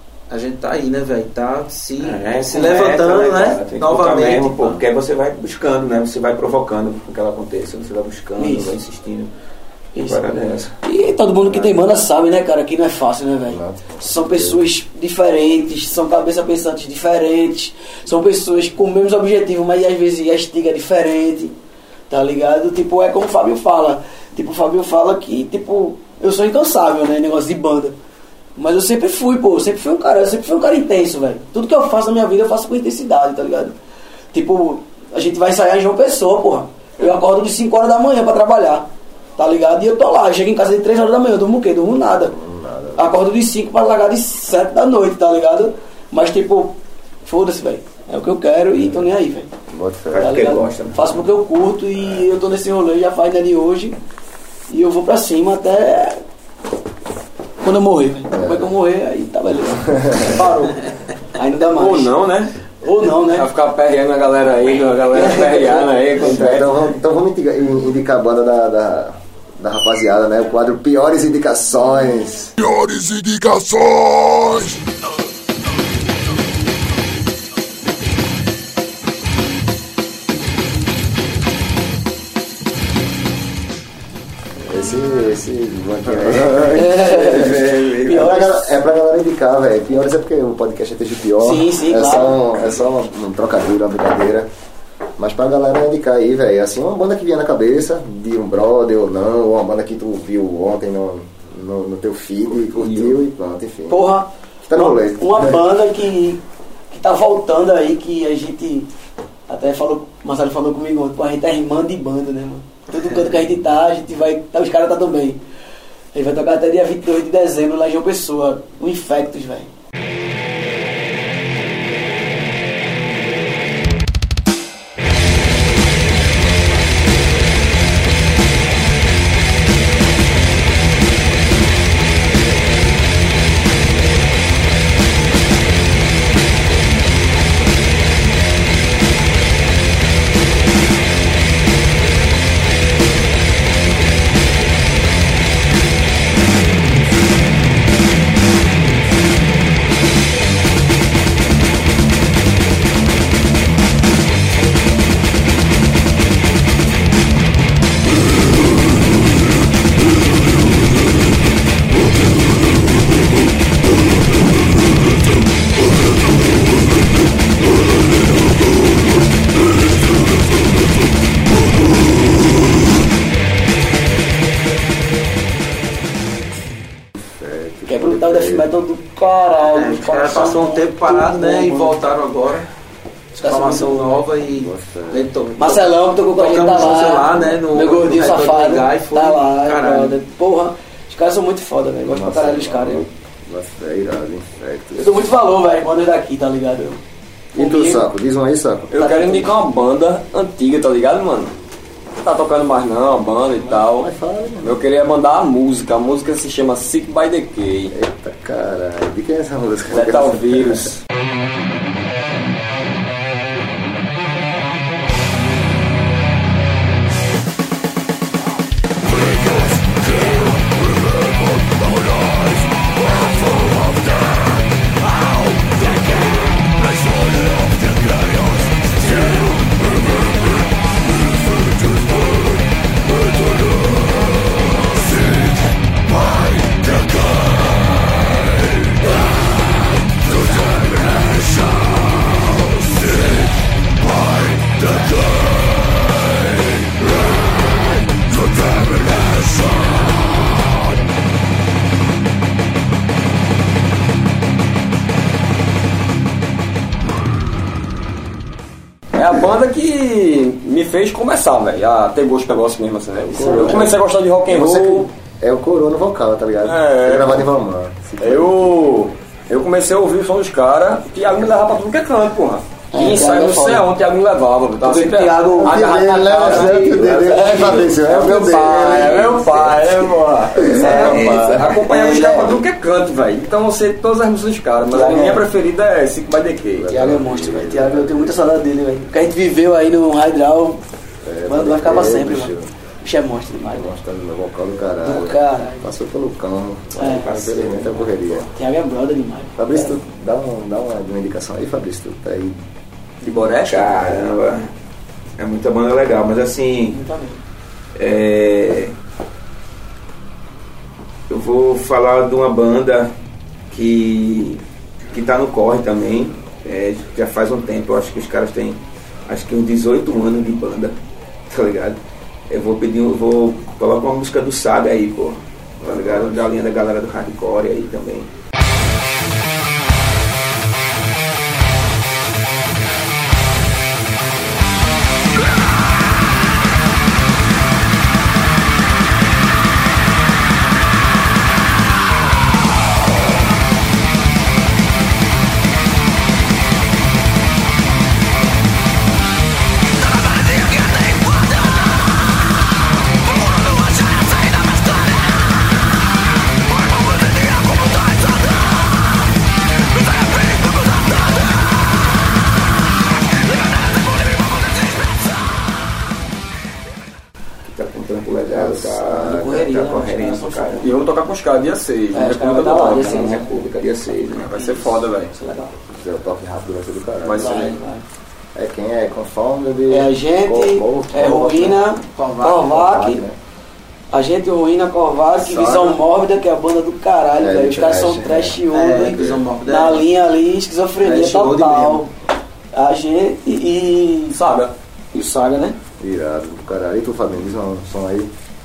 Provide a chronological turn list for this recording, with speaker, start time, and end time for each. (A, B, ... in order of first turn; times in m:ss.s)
0:00.3-0:04.8 A
0:02.0-0:09.3 B
0:08.4-0:08.8 C
0:10.0-0:10.8 B
0:10.0-0:21.5 C
0:11.4-0:11.9 D
0:13.5-0:14.6 D
0:22.1-0:28.0 C
0:28.6-0:33.8 C
0:34.3-0:42.4 C
0:42.3-0:43.2 D
0:43.0-0:49.5 C
0:48.8-0:49.1 D
0:49.7-0:50.3 D
0:50.1-0:51.2 B
0:50.2-0:54.0 C
0:54.7-0:56.2 C
0:57.6-1:00.8 C
0:58.3-0:58.7 D
0:59.8-1:00.5 D
1:01.3-1:02.1 C
1:01.6-1:02.6 E
1:02.8-1:03.5 C
1:03.1-1:06.8 E
1:05.1-1:05.9 C
1:06.2-1:12.7 D
1:24.6-1:34.5 D
1:26.7-1:28.8 C
1:31.4-1:32.7 C
1:35.2-1:44.0 D
1:42.8-1:43.1 E
1:43.9-1:48.9 C
1:44.7-1:45.6 D
1:49.5-1:55.4 C
1:56.1-1:59.7 C
2:57.3-2:58.7 D
2:57.9-3:02.0 C
2:59.7-3:02.7 A
3:03.4-3:04.2 C
3:03.4-3:10.2 A
3:04.4-3:05.3 D
3:05.6-3:13.1 C
3:12.0-3:15.3 D
3:15.0-3:17.0 C
3:17.6-3:18.1 C
3:17.6-3:19.2 D
3:18.9-3:21.5 E
3:19.0-3:19.5 C
3:22.2-3:24.1 E
3:23.5-3:24.8 D
3:24.6-3:27.9 E
3:27.9-3:30.9 D
3:29.9-3:31.0 E
3:47.1-3:48.4 E
3:49.3-3:49.7 E
4:08.5-4:10.0 E
4:19.1-4:25.1 E
4:23.3-4:23.9 C
4:23.3-4:28.8 D
4:26.6-4:27.5 E
4:28.2-4:46.9 E
4:32.9-4:33.9 C
4:34.8-4:39.5 C
4:35.6-4:39.5 D
4:40.5-4:41.2 D
4:40.7-4:42.6 C
4:40.8-4:41.8 B
4:44.9-4:45.4 C
4:46.8-4:48.6 D
4:46.9-4:50.8 C
4:51.2-4:52.7 D
4:51.5-4:53.9 C
4:53.7-4:58.5 D
4:55.0-4:55.9 C
4:57.0-4:57.3 C
4:57.0-4:58.4 B
4:58.5-5:00.0 C
4:59.6-5:02.6 D
5:03.2-5:04.3 E
5:03.6-5:04.7 B
5:05.4-5:07.0 B
5:06.9-5:07.4 C
5:08.0-5:09.0 B
5:11.3-5:13.1 B
5:13.7-5:28.3 B
5:25.8-5:26.4 D
6:07.6-6:10.9 B
6:08.5-6:09.7 D
6:09.2-6:10.9 C
6:10.8-6:13.3 E
6:12.1-6:13.4 C
6:12.3-6:14.9 B
6:14.4-6:15.4 E
6:15.3-6:15.7 C
6:15.8-6:17.8 D
6:17.2-6:17.8 E
6:17.4-6:18.0 C
6:18.6-6:21.8 D
6:19.9-6:23.2 C
6:22.2-6:22.8 A
6:22.6-6:23.4 D
6:24.1-6:32.1 C
6:25.5-6:26.0 E
6:27.4-6:28.6 D
6:28.7-6:30.1 A
6:31.0-6:32.0 A
6:32.7-6:34.4 C
6:34.3-6:34.7 E
6:35.1-6:35.8 C
6:36.0-6:38.3 D